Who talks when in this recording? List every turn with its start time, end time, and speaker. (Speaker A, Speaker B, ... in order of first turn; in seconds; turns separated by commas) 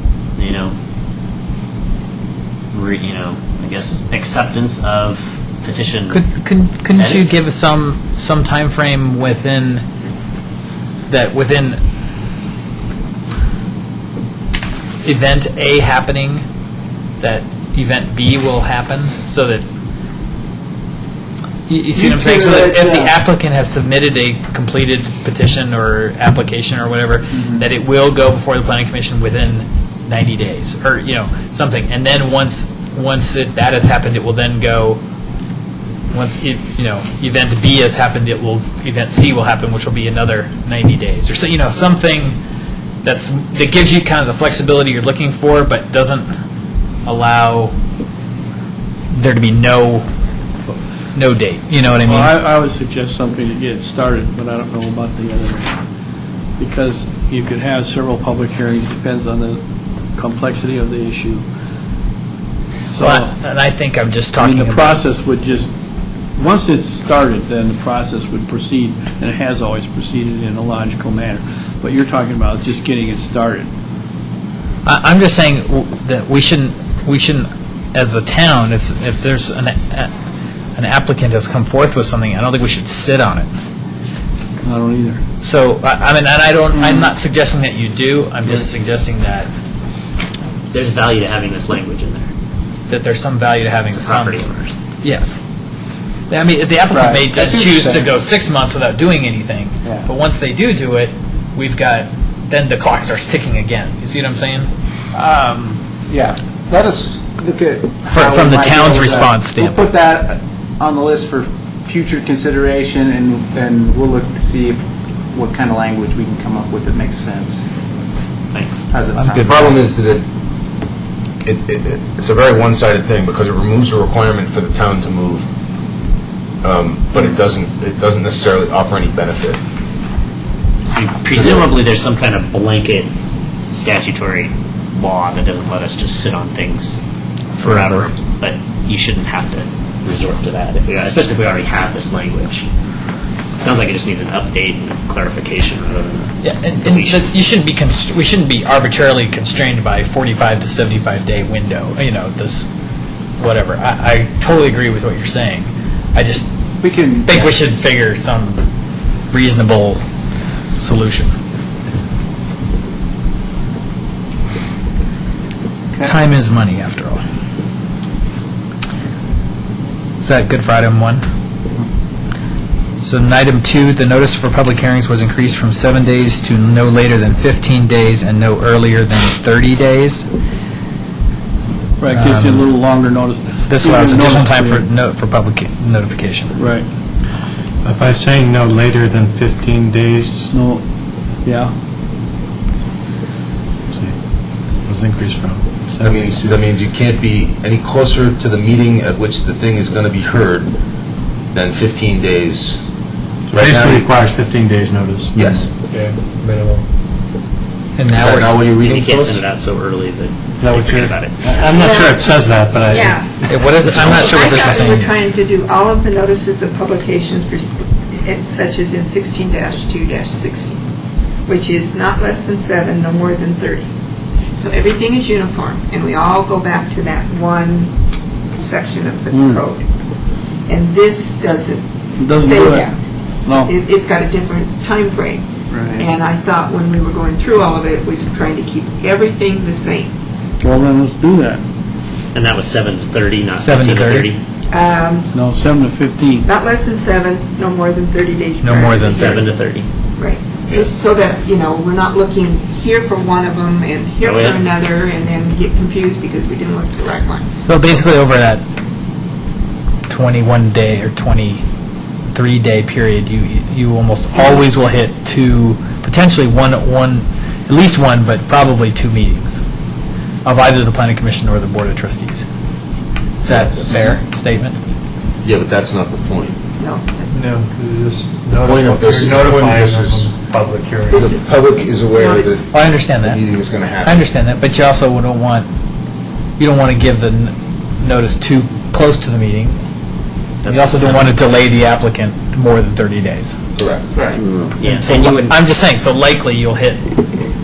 Speaker A: 0.3-0.8, Speaker A: 2.7-6.2, Speaker B: 6.1-9.8, Speaker A: 6.9-7.4, Speaker B: 11.1-11.8, Speaker B: 15.0-16.4, Speaker B: 17.2-19.6, Speaker B: 21.7-35.0, Speaker C: 21.9-23.1, Speaker C: 27.3-27.6, Speaker B: 36.1-42.4, Speaker B: 43.0-46.3, Speaker B: 47.0-47.7, Speaker B: 49.1-50.0, Speaker B: 51.1-52.3, Speaker D: 52.0-55.7, Speaker D: 56.6-59.6, Speaker D: 60.1-61.4, Speaker D: 62.9-63.3, Speaker B: 63.0-65.0, Speaker D: 64.4-65.7, Speaker D: 66.4-73.7, Speaker B: 74.8-80.1, Speaker B: 80.8-83.5, Speaker D: 84.6-85.2, Speaker B: 85.4-89.5, Speaker C: 86.8-87.1, Speaker A: 90.7-92.3, Speaker B: 92.9-94.5, Speaker A: 93.9-94.7, Speaker B: 95.0-95.4, Speaker B: 96.3-104.7, Speaker C: 96.9-98.1, Speaker C: 105.2-105.6, Speaker B: 105.3-105.7, Speaker C: 106.1-117.6, Speaker B: 108.1-109.8, Speaker A: 118.5-118.8, Speaker C: 118.9-119.8, Speaker E: 119.3-120.2, Speaker E: 121.4-125.5, Speaker E: 126.6-129.6, Speaker A: 130.9-133.1, Speaker E: 131.3-131.7, Speaker A: 133.7-137.0, Speaker B: 137.6-138.1, Speaker A: 137.6-142.7, Speaker A: 143.6-147.2, Speaker B: 146.4-152.7, Speaker B: 153.4-156.5, Speaker C: 156.8-157.5, Speaker B: 157.2-158.7, Speaker B: 159.3-160.0, Speaker B: 160.8-161.3, Speaker B: 166.0-167.2, Speaker B: 170.2-171.2, Speaker B: 173.0-180.3, Speaker D: 182.0-184.8, Speaker B: 182.1-182.7, Speaker B: 183.7-186.6, Speaker D: 186.6-186.9, Speaker F: 187.8-190.5, Speaker D: 190.5-190.8, Speaker D: 191.4-191.7, Speaker F: 193.9-194.2, Speaker F: 194.8-196.4, Speaker E: 196.0-200.7, Speaker E: 201.5-202.8, Speaker F: 203.5-206.8, Speaker E: 203.5-204.1, Speaker E: 205.3-205.7, Speaker B: 208.0-208.6, Speaker E: 208.1-209.4, Speaker A: 208.7-211.7, Speaker F: 210.6-214.1, Speaker G: 211.6-212.3, Speaker G: 212.8-220.8, Speaker B: 213.5-215.1, Speaker G: 221.4-223.9, Speaker G: 224.6-227.9, Speaker G: 228.6-229.8, Speaker D: 229.3-229.6, Speaker G: 230.7-240.1, Speaker D: 232.2-232.9, Speaker D: 233.4-233.7, Speaker D: 235.7-236.1, Speaker D: 240.6-241.6, Speaker A: 242.3-244.4, Speaker B: 243.6-244.3, Speaker G: 244.7-245.3, Speaker D: 245.3-246.5, Speaker G: 246.4-249.5, Speaker B: 248.6-249.4, Speaker A: 249.1-249.9, Speaker G: 250.2-258.1, Speaker A: 254.2-254.7, Speaker B: 257.6-258.6, Speaker B: 260.1-261.6, Speaker B: 262.3-269.6, Speaker G: 264.3-264.9, Speaker B: 270.4-272.4, Speaker B: 273.4-274.8, Speaker E: 273.5-273.9, Speaker E: 275.4-276.6, Speaker G: 276.8-277.3, Speaker F: 277.3-281.3, Speaker E: 278.6-280.3, Speaker G: 281.1-281.5, Speaker E: 281.1-284.3, Speaker G: 282.1-282.7, Speaker B: 282.7-283.4, Speaker B: 284.0-285.7, Speaker B: 286.6-289.8, Speaker A: 290.6-291.7, Speaker B: 290.6-293.6, Speaker E: 293.8-294.0, Speaker A: 294.4-295.6, Speaker B: 294.8-297.0